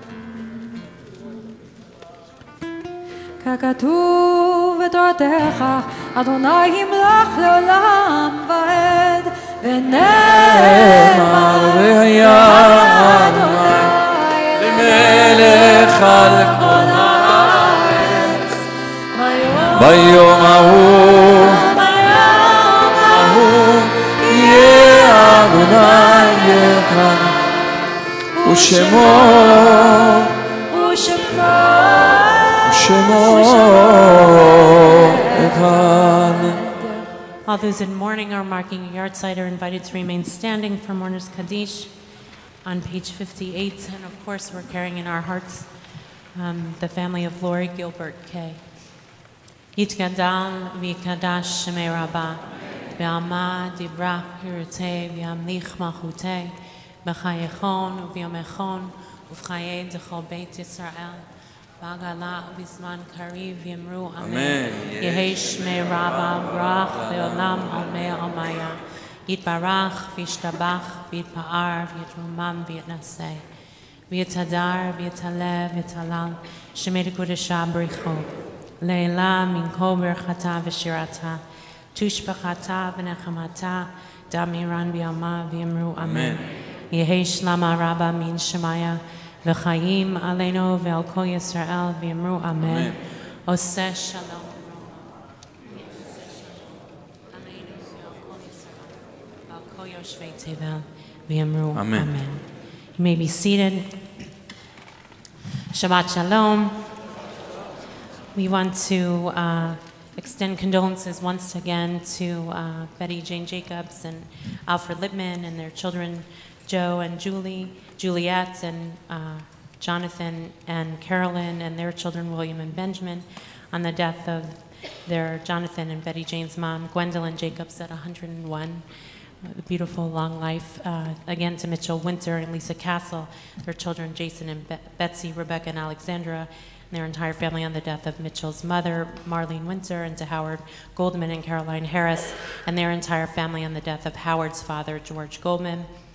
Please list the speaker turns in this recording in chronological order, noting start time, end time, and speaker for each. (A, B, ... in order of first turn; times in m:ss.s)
0:03.4-0:20.2 A
0:10.5-0:14.0 B
0:14.5-0:18.3 B
0:19.7-0:21.8 B
0:21.6-0:23.4 A
0:23.0-0:27.4 B
0:28.4-0:29.6 A
0:28.4-0:30.4 B
0:30.7-0:35.5 A
0:32.6-0:36.6 B
0:37.4-0:41.9 C
0:42.6-0:45.7 C
0:46.3-0:48.6 C
0:49.8-0:52.4 C
0:53.0-1:01.2 C
1:01.8-1:13.4 C
1:04.2-1:07.9 B
1:14.1-1:21.4 C
1:21.9-1:35.1 C
1:26.0-1:26.5 B
1:32.6-1:33.0 B
1:35.7-1:36.4 C
1:37.3-1:42.4 C
1:41.7-1:42.1 B
1:43.0-1:43.9 C
1:45.7-1:46.8 C
1:48.3-2:08.8 C
2:09.4-2:25.9 C